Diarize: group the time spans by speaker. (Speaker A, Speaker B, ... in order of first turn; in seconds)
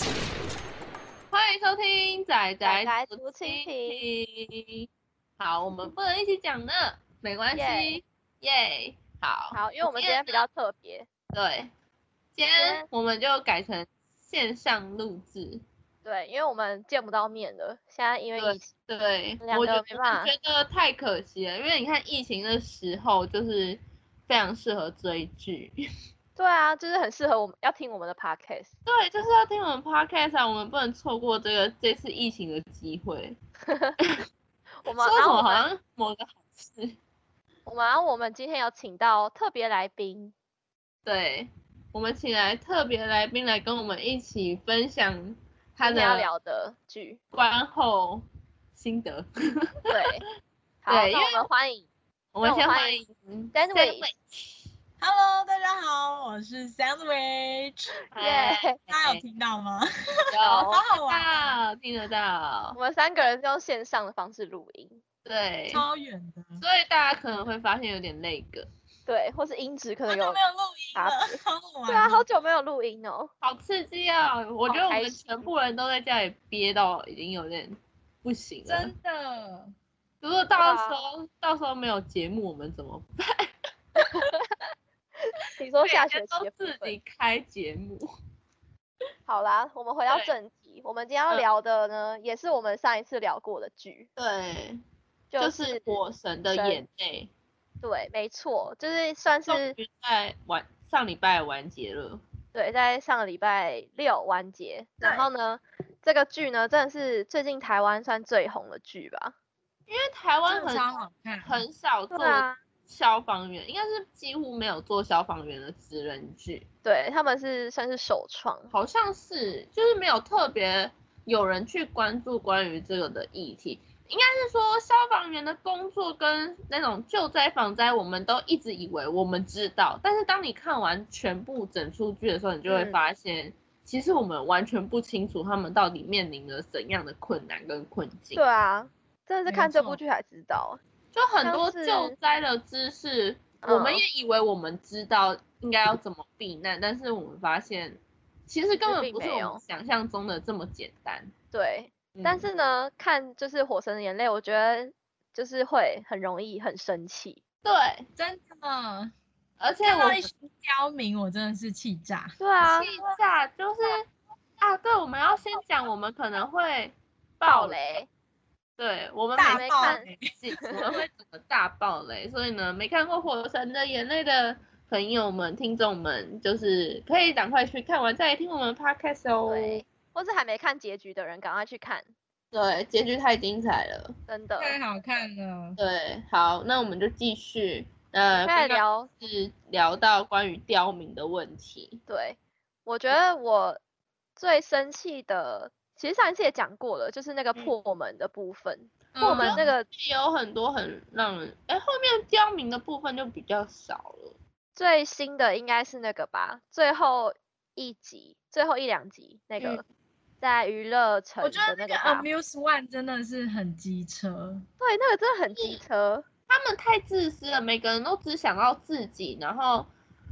Speaker A: 1.3-4.8, 5.4-10.4, 11.3-11.7, 12.3-15.6, 18.4-25.8, 28.9-33.4, 35.0-37.0, 41.0-46.3, 47.3-50.0, 50.9-51.4, 52.3-54.6, 58.1-59.2, 60.3-62.8, 65.2-65.8, 66.6-68.7, 73.4-78.9, 80.2-84.3, 85.8-88.1, 94.2-94.8, 95.4-97.3, 99.5-102.2, 109.9-110.9, 111.4-116.7, 118.7-138.4, 141.1-151.3, 152.1-152.5, 157.6-158.0, 159.6-160.3, 162.6-164.1, 164.6-167.8, 168.8-179.8, 182.5-184.1, 185.8-192.0, 199.2-204.3, 216.5-219.9
Speaker B: 2.6-4.0, 7.5-8.0, 9.5-11.1, 12.6-12.9, 16.0-18.7, 19.4-20.3, 26.4-28.7, 33.7-34.0, 34.8-35.6, 37.6-40.3, 45.8-47.2, 49.9-50.2, 50.8-51.9, 52.4-53.0, 53.5-54.1, 58.2-58.8, 60.4-60.8, 62.7-65.0, 69.1-70.4, 70.9-73.3, 74.7-75.5, 80.6-81.0, 85.3-87.0, 89.3-94.1, 95.3-95.8, 96.5-96.8, 97.8-99.8, 102.5-109.3, 112.1-112.6, 116.8-118.7, 132.7-133.0, 138.3-140.8, 141.4-142.1, 143.6-144.0, 148.9-149.6, 151.5-157.4, 162.4-162.9, 167.5-168.1, 169.4-170.9, 179.5-182.1, 184.3-184.8, 188.4-189.1, 192.1-193.8, 194.4-199.9, 204.8-209.8, 210.4-212.3, 214.8-216.2
Speaker C: 55.0-57.9, 58.9-61.5, 65.7-66.6, 70.1-72.2, 78.7-79.7, 110.5-111.6, 139.5-140.0, 158.2-159.1, 159.8-162.4, 169.3-170.8, 184.6-185.8, 199.1-199.7, 211.4-214.6